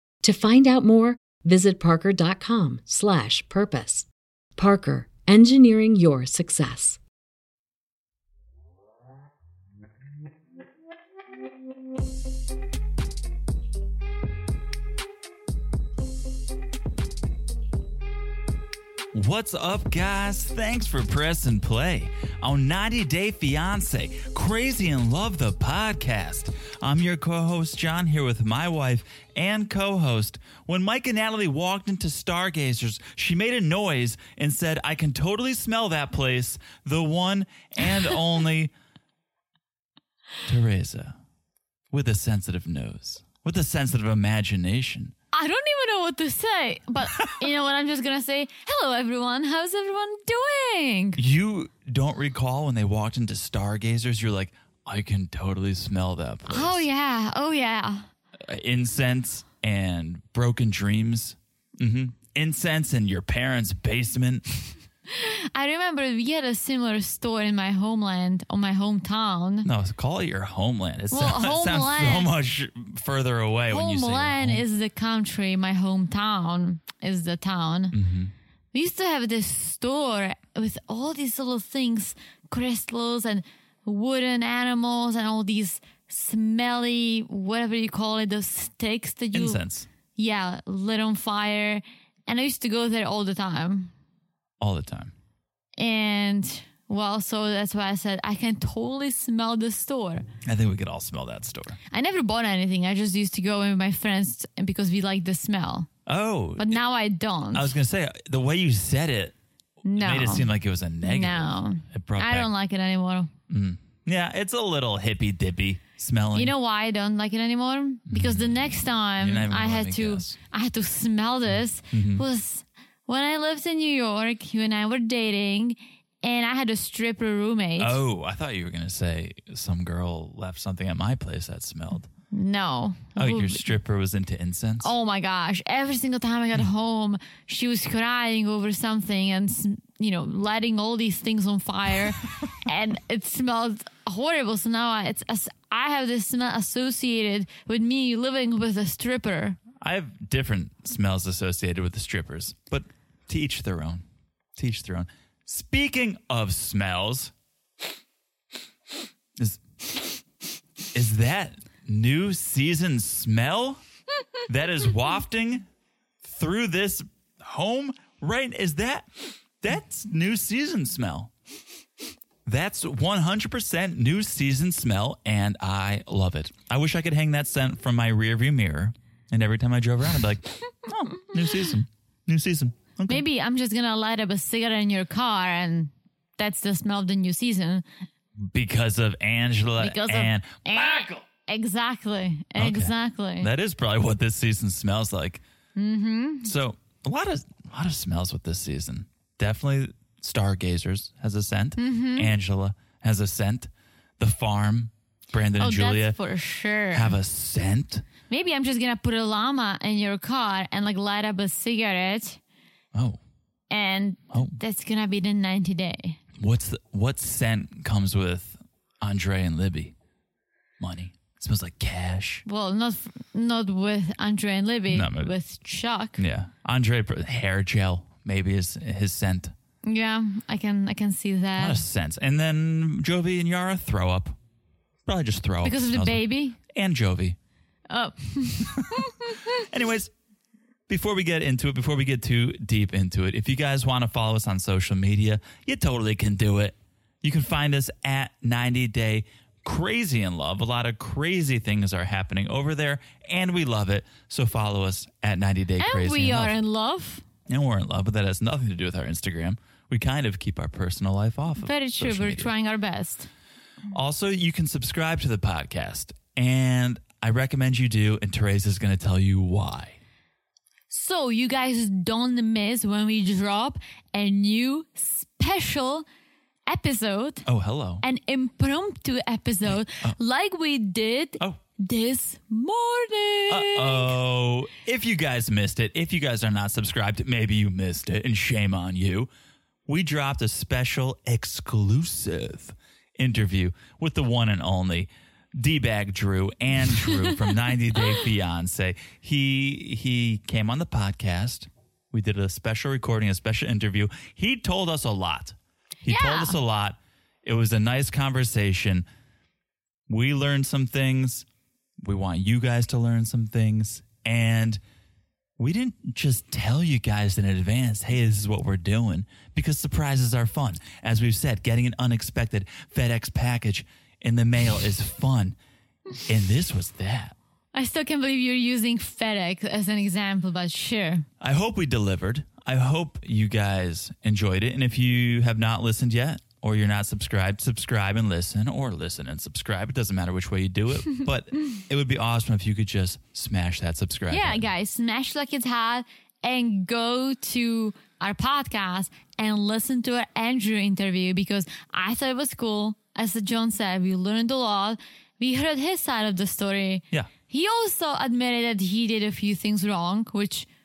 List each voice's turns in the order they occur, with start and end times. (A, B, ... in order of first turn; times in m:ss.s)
0:00.2-0:07.0 A
0:19.1-0:38.7 B
0:40.4-0:41.2 B
0:41.9-0:45.1 B
0:45.3-0:51.2 C
0:51.2-0:56.8 B
0:56.5-0:58.1 C
0:58.5-1:04.5 B
1:05.1-1:09.7 C
1:09.6-1:14.6 B
1:11.1-1:12.3 C
1:13.7-1:18.0 C
1:17.9-1:18.3 B
1:18.7-1:29.6 C
1:29.3-1:29.9 B
1:30.2-1:33.9 C
1:34.6-1:35.1 B
1:35.8-1:40.2 C
1:40.4-1:41.8 B
1:41.9-1:45.9 C
1:46.1-1:46.8 B
1:46.6-1:47.7 C
1:47.5-1:49.4 B
1:49.8-1:50.5 C
1:50.0-1:52.5 B
1:51.0-1:53.3 C
1:53.5-1:56.5 B
1:56.4-2:08.0 C
1:58.1-2:00.4 B
2:01.9-2:02.2 B
2:07.8-2:12.1 B
2:12.3-2:13.8 C
2:13.2-2:14.9 B
2:14.8-2:29.6 C
2:29.8-2:34.0 B
2:34.6-2:37.3 B
2:40.9-2:43.8 B
2:44.5-2:45.7 B
2:46.2-2:51.3 B
2:52.5-3:03.2 B
3:03.1-3:07.8 C
3:08.4-3:11.2 B
3:09.8-3:13.5 C
3:12.6-3:15.4 B
3:15.8-3:16.5 C
3:16.4-3:26.2 B
3:21.8-3:22.3 C
3:25.6-3:27.2 C
3:26.9-3:28.1 B
3:28.3-3:32.4 C
3:33.7-3:36.2 C
3:34.3-3:34.6 B
3:36.4-3:39.9 B
3:40.8-3:42.4 B
3:42.5-3:46.2 C
3:44.9-3:45.3 B
3:46.2-3:49.5 B
3:49.8-3:51.8 C
3:51.6-3:54.4 B
3:55.1-3:57.4 B
3:55.6-3:56.6 C
3:57.9-3:59.5 C
3:58.6-4:00.1 B
4:00.9-4:16.6 B
4:15.8-4:17.2 C
4:17.5-4:22.5 B
4:21.6-4:23.3 C
4:23.9-4:30.0 B
4:30.9-4:36.1 C
4:36.7-4:37.4 C
4:37.5-4:38.0 B
4:38.0-4:44.1 C
4:43.5-4:49.3 B
4:49.9-5:09.1 B
5:06.1-5:06.6 C
5:10.1-5:11.4 B
5:12.0-5:14.8 B
5:15.6-5:25.6 B
5:26.2-5:27.4 B
5:27.7-5:31.3 C
5:31.4-5:44.6 B
5:44.3-6:00.7 C